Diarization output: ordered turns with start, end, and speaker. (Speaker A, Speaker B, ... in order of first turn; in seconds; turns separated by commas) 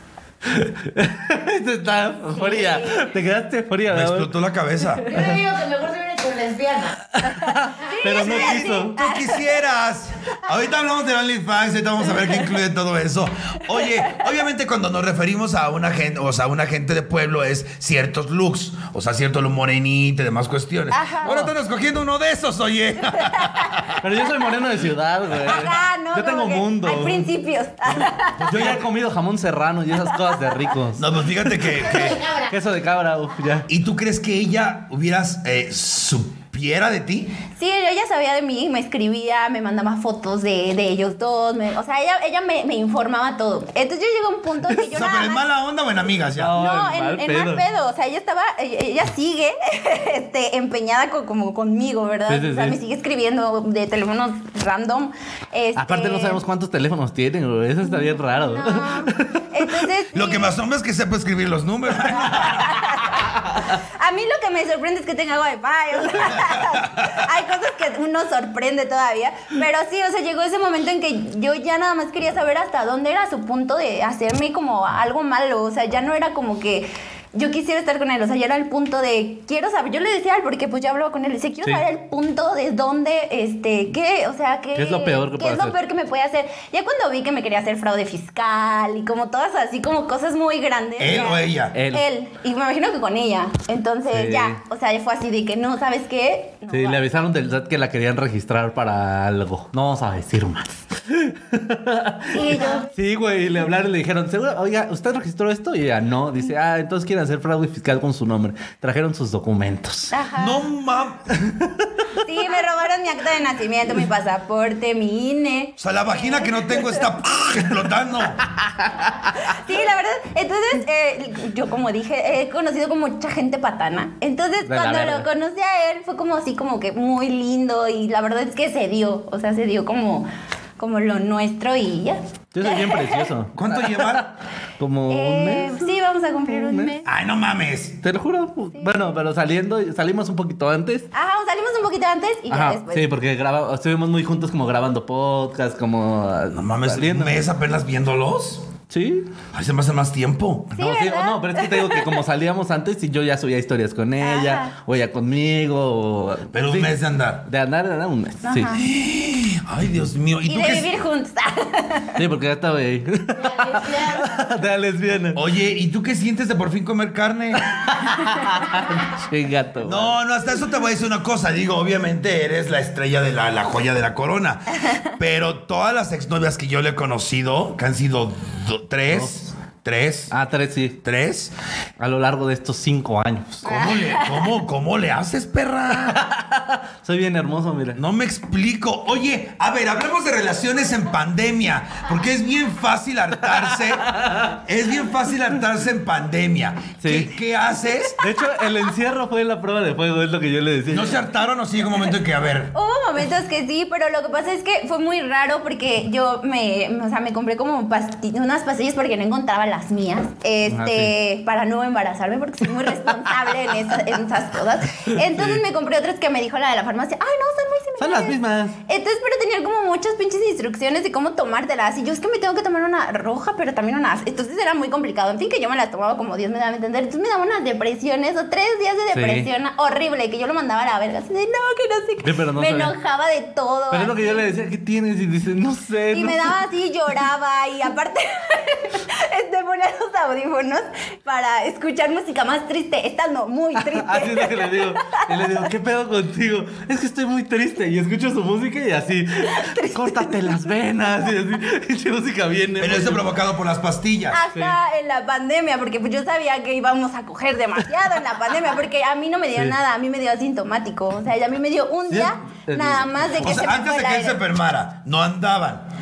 Speaker A: 0.4-4.3, Speaker B: 2.3-3.1, Speaker C: 3.9-5.1, Speaker D: 5.1-7.1, Speaker A: 7.2-8.9, Speaker B: 7.4-9.4, Speaker C: 8.1-24.0, Speaker B: 20.9-21.4, Speaker B: 23.2-23.9, Speaker A: 24.0-27.3, Speaker B: 25.4-28.7, Speaker C: 27.9-28.9, Speaker A: 28.5-31.1, Speaker B: 30.1-30.6, Speaker C: 30.9-32.3, Speaker A: 31.9-33.7, Speaker D: 31.9-32.5, Speaker C: 33.7-37.4, Speaker B: 37.6-45.4, Speaker C: 44.9-46.6, Speaker A: 46.4-47.6, Speaker B: 46.5-56.4, Speaker A: 52.3-52.8, Speaker A: 55.8-59.7, Speaker B: 57.8-60.5, Speaker C: 60.1-62.9, Speaker B: 62.2-97.0, Speaker C: 66.5-67.1, Speaker A: 84.7-85.7, Speaker C: 91.0-91.8, Speaker A: 91.7-92.0, Speaker A: 94.1-94.6, Speaker A: 96.7-110.1, Speaker B: 102.3-102.9, Speaker B: 110.1-110.6, Speaker C: 110.3-111.3, Speaker A: 111.4-112.1, Speaker B: 112.2-117.0, Speaker C: 115.8-118.4, Speaker B: 119.4-133.3, Speaker A: 124.6-125.3, Speaker A: 132.5-135.9, Speaker C: 133.6-134.3, Speaker B: 135.1-137.1, Speaker A: 136.4-136.9, Speaker C: 137.0-138.0, Speaker A: 138.0-141.1, Speaker B: 138.7-139.1, Speaker B: 141.1-143.1, Speaker A: 142.5-147.4, Speaker C: 146.5-148.7, Speaker A: 148.9-149.3, Speaker C: 149.5-150.8, Speaker B: 150.8-152.2, Speaker A: 150.8-158.7, Speaker B: 154.2-154.7, Speaker C: 156.5-157.4, Speaker B: 158.4-158.8, Speaker C: 158.7-160.9, Speaker B: 160.4-162.2, Speaker A: 162.2-165.4, Speaker D: 163.3-164.3, Speaker C: 165.3-168.0, Speaker A: 167.7-170.1, Speaker C: 169.8-180.3, Speaker A: 179.1-179.4, Speaker A: 180.3-181.0, Speaker C: 181.0-181.5, Speaker A: 182.0-183.7, Speaker C: 183.6-186.2, Speaker B: 183.6-184.4, Speaker A: 186.0-188.0, Speaker C: 187.9-198.2, Speaker A: 193.8-194.6, Speaker A: 197.0-197.3, Speaker A: 198.2-201.2, Speaker C: 200.9-202.7, Speaker B: 202.7-234.5, Speaker A: 210.7-211.1, Speaker A: 215.1-215.6, Speaker A: 218.0-218.8, Speaker A: 229.1-229.5, Speaker A: 232.2-232.9, Speaker A: 233.9-236.6, Speaker B: 236.1-245.4, Speaker A: 243.8-253.3, Speaker B: 249.5-250.3, Speaker C: 252.8-254.4, Speaker B: 254.3-264.4, Speaker A: 262.1-263.6, Speaker C: 263.4-265.8